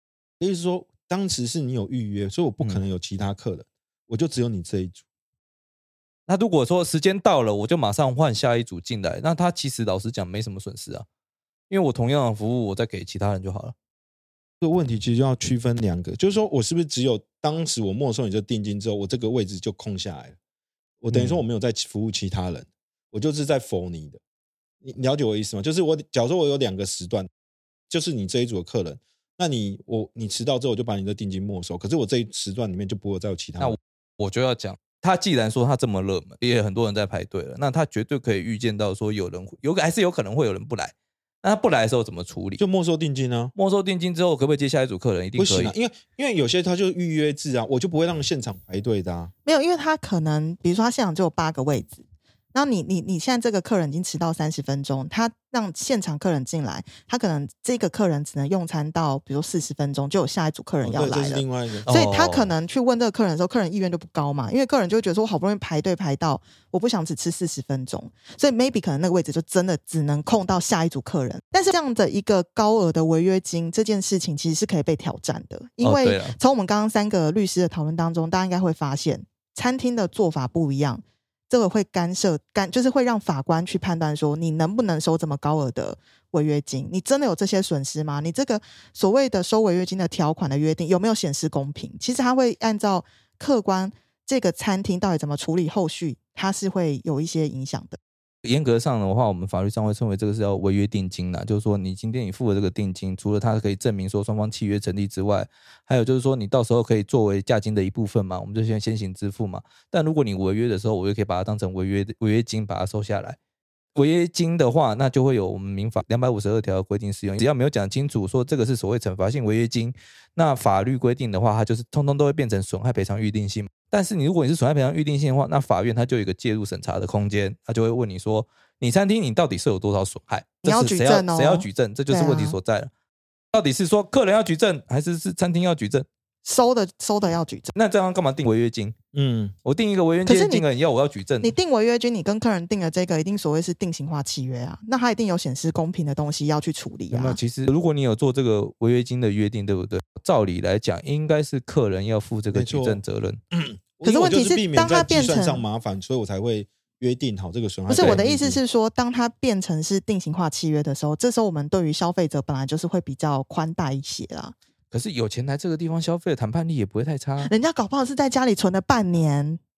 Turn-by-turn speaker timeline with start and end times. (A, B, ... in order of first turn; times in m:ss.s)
0:00.4-0:05.0 A
0:06.3-0:11.1 B
0:11.7-0:13.8 B
0:14.6-0:20.4 A
0:21.0-0:24.2 A
0:21.1-0:21.4 B
0:24.8-0:27.3 A
0:27.9-0:33.8 A
0:33.6-0:42.6 B
0:42.6-0:43.5 A
0:43.6-0:45.8 B
0:45.4-0:49.3 A
0:49.5-0:52.0 C
0:52.5-1:38.0 C
1:00.8-1:01.9 A
1:01.8-1:02.5 B
1:15.8-1:16.4 B
1:38.4-1:53.4 B
1:54.0-2:12.9 B
2:10.6-2:12.6 C
2:13.5-2:16.1 B
2:16.4-2:17.7 C
2:17.7-2:19.0 B
2:19.1-2:19.5 A
2:19.6-2:21.6 B
2:20.3-2:20.7 C
2:21.4-2:27.4 C
2:27.1-2:33.4 B
2:32.5-2:33.0 A
2:33.5-2:38.6 A
2:34.0-2:35.7 C
2:37.9-2:44.6 C
2:37.9-2:38.2 B
2:44.9-2:47.5 B
2:47.4-2:49.6 C